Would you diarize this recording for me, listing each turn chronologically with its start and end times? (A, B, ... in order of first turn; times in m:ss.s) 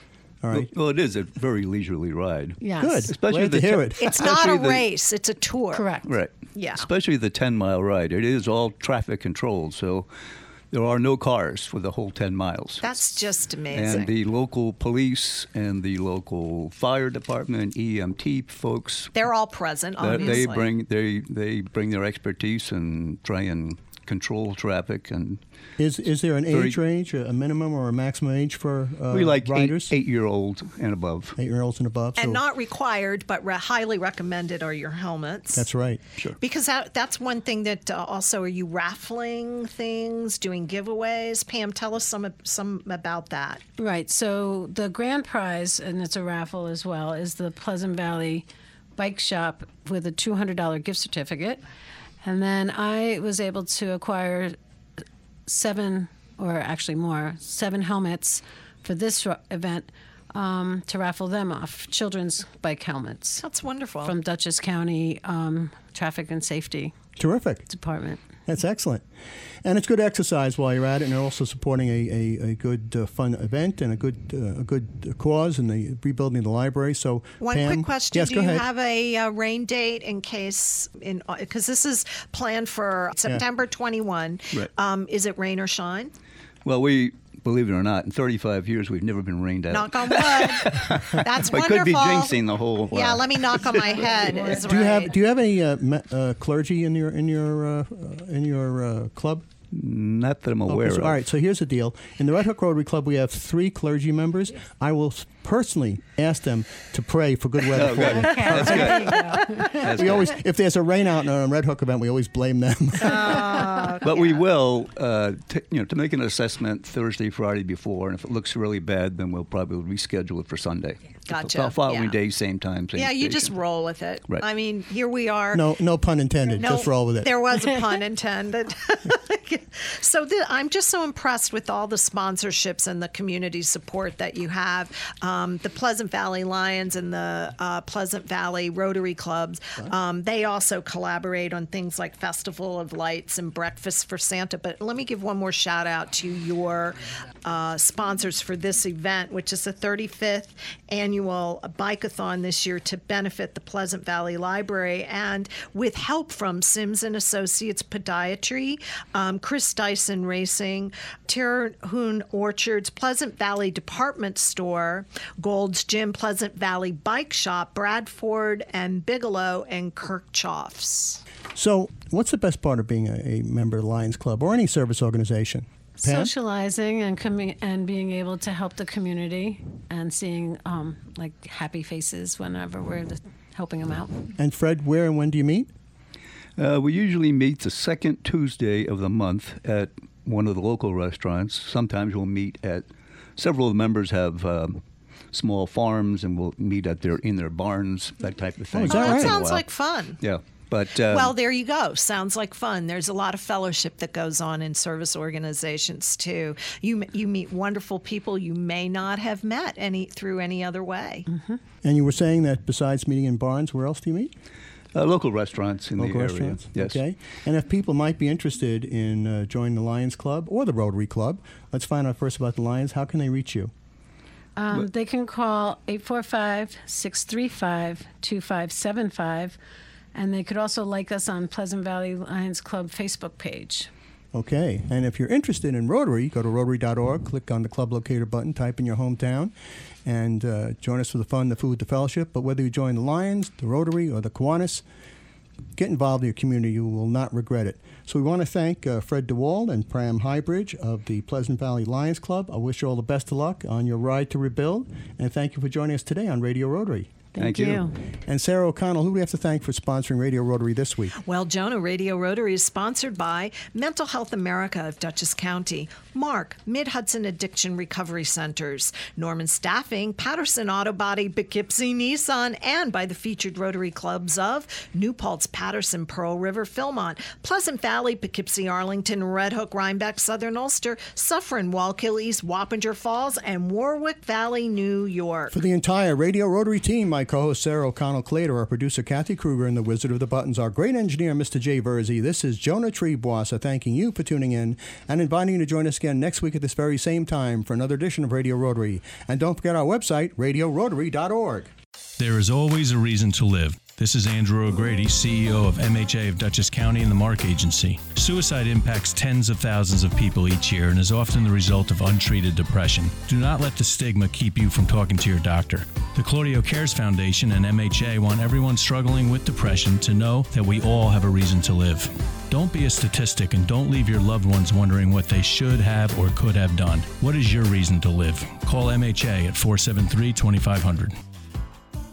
0:00.4-0:00.7 A
0:00.5-0:04.8 B
0:02.6-0:03.1 C
0:02.8-0:04.3 A
0:04.0-0:05.9 D
0:05.7-0:06.1 C
0:06.1-0:10.1 B
0:06.6-0:06.9 D
0:10.7-0:13.0 B
0:12.8-0:14.1 D
0:13.7-0:19.2 B
0:19.1-0:20.7 D
0:20.0-0:25.4 B
0:25.8-0:29.9 A
0:26.5-0:26.8 B
0:29.1-0:31.4 B
0:31.4-0:32.4 A
0:32.2-0:35.7 D
0:35.5-0:36.0 A
0:36.4-0:43.6 D
0:43.8-0:48.4 C
0:49.0-0:51.6 C
0:52.2-0:54.6 C
0:55.5-1:03.4 C
1:03.4-1:04.2 D
1:04.0-1:07.0 C
1:07.2-1:07.7 A
1:07.7-1:08.3 C
1:08.5-1:09.0 A
1:09.6-1:18.6 A
1:17.4-1:26.1 D
1:26.6-1:34.1 B
1:29.7-1:35.2 D
1:34.6-1:39.4 A
1:39.7-1:41.2 B
1:40.7-1:53.6 A
1:47.7-1:50.3 B
1:48.0-1:49.9 C
1:53.0-1:54.4 D
1:54.0-2:03.5 B
2:01.3-2:02.2 D
2:02.9-2:05.6 D
2:05.5-2:07.3 A
2:06.6-2:51.2 D
2:51.5-2:56.3 A
2:56.0-3:04.3 C
3:04.4-3:05.7 A
3:06.6-3:12.9 B
3:13.4-3:19.6 B
3:18.7-3:19.4 A
3:18.9-3:20.2 D
3:20.2-3:21.3 B
3:21.0-3:31.3 D
3:31.3-3:31.6 C
3:31.8-3:34.3 A
3:34.9-3:37.0 B
3:36.0-3:43.7 A
3:44.6-3:49.6 C
3:50.1-3:53.9 C
3:54.3-3:59.5 A
4:00.1-4:04.8 A
4:05.8-4:17.1 A
4:17.4-4:17.9 C
4:17.4-4:17.9 B
4:18.2-4:21.1 A
4:21.2-4:45.6 D
4:45.5-5:01.7 A
5:02.2-5:31.2 E